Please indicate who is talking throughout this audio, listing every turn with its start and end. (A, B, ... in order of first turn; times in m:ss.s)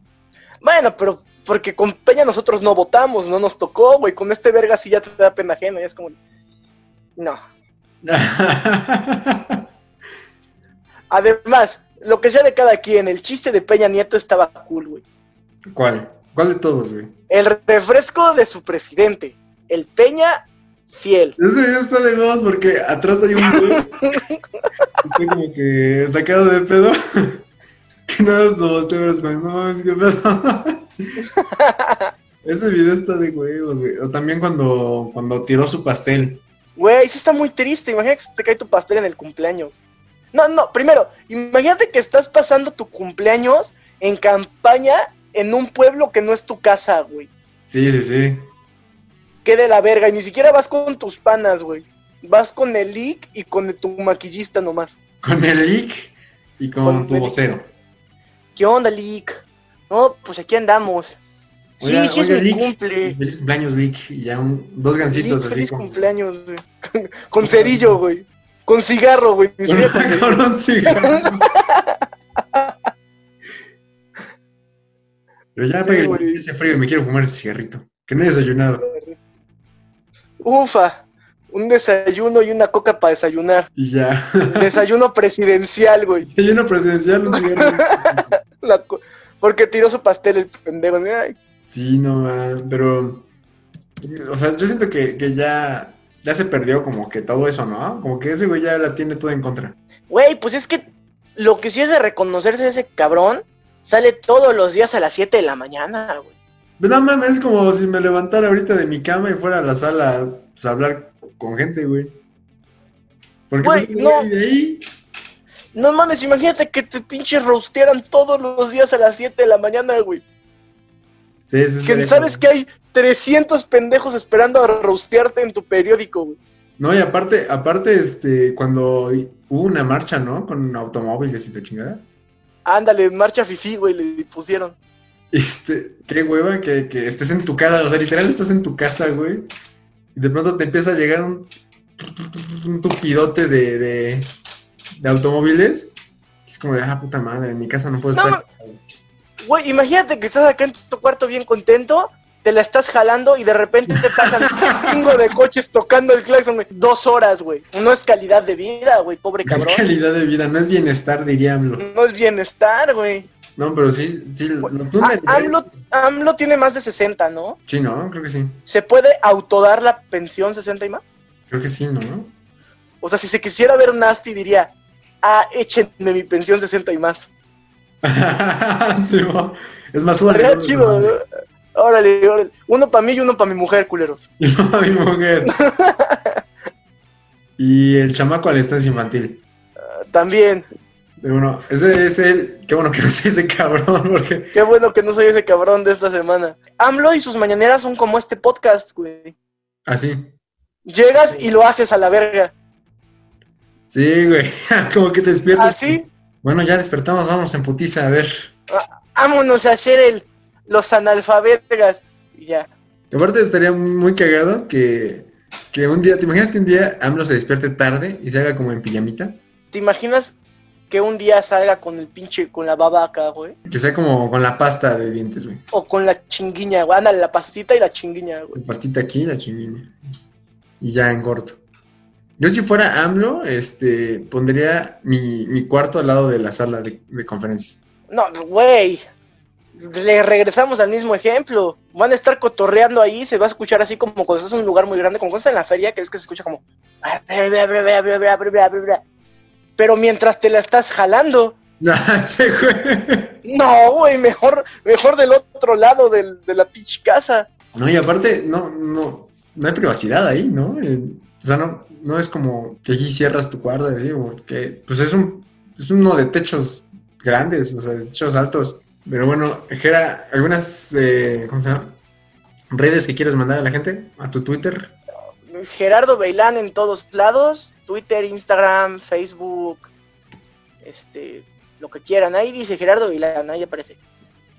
0:00.6-0:06.2 A
0:08.0-0:09.6 B
0:11.1-0:15.0 A
0:15.7-0:17.1 B
0:17.3-0:20.4 A
0:20.9-0:21.4 A
0:21.4-0:23.9 B
0:23.5-0:24.4 A
0:25.0-0:27.5 B
0:28.1-0:30.8 B
0:31.3-0:32.1 A
0:32.4-0:36.4 B
0:36.8-0:39.8 A
0:40.3-0:47.3 A
0:47.7-0:48.4 B
0:49.4-0:55.0 A
0:55.2-0:57.7 B
0:56.8-0:57.4 A
0:58.6-1:01.2 A
1:01.8-1:03.2 A
1:01.8-1:06.1 B
1:05.1-1:10.4 A
1:07.4-1:08.0 B
1:09.6-1:11.5 B
1:11.0-1:12.8 A
1:15.6-1:18.9 B
1:15.8-1:16.4 A
1:18.8-1:19.2 A
1:20.4-1:23.7 A
1:23.8-1:24.8 B
1:24.5-1:26.3 A
1:26.3-1:28.4 B
1:27.3-1:31.4 A
1:31.7-1:33.3 B
1:34.0-1:39.8 B
1:40.1-1:40.8 A
1:41.4-1:46.3 A
1:46.8-1:52.1 B
1:53.5-1:54.8 B
1:53.6-1:54.3 A
1:55.7-2:00.2 A
2:01.5-2:02.5 B
2:01.8-2:06.4 A
2:06.8-2:12.0 B
2:12.7-2:14.8 A
2:15.3-2:19.5 B
2:20.2-2:24.3 B
2:25.0-2:25.9 B
2:26.5-2:28.8 B
2:28.1-2:28.4 A
2:29.4-2:39.9 A
2:33.9-2:35.0 B
2:39.4-2:41.9 B
2:41.8-2:43.3 A
2:43.6-2:45.7 B
2:44.6-2:47.6 A
2:47.7-2:48.6 B
2:48.7-2:51.1 A
2:51.5-2:52.3 B
2:53.0-2:57.3 A
2:58.0-3:01.2 B
3:00.3-3:01.2 A
3:01.8-3:04.3 A
3:04.4-3:05.5 B
3:05.5-3:06.4 A
3:07.6-3:09.4 B
3:10.1-3:10.6 A
3:11.2-3:14.6 B
3:14.6-3:19.4 A
3:19.9-3:20.3 B
3:20.9-3:22.5 A
3:23.9-3:28.5 B
3:25.6-3:26.0 A
3:28.7-3:32.7 A
3:33.1-3:39.4 B
3:39.7-3:40.4 A
3:40.9-3:43.6 A
3:43.7-3:45.6 B
3:45.7-3:48.6 A
3:48.5-3:49.9 B
3:50.8-3:51.6 B
3:52.4-3:57.8 B
3:58.1-3:59.0 A
3:59.8-4:09.0 A
4:09.8-4:11.6 A
4:11.8-4:13.4 B
4:13.4-4:17.5 A
4:17.7-4:32.0 B
4:32.7-4:35.0 B
4:35.5-4:39.9 A
4:40.8-4:44.0 A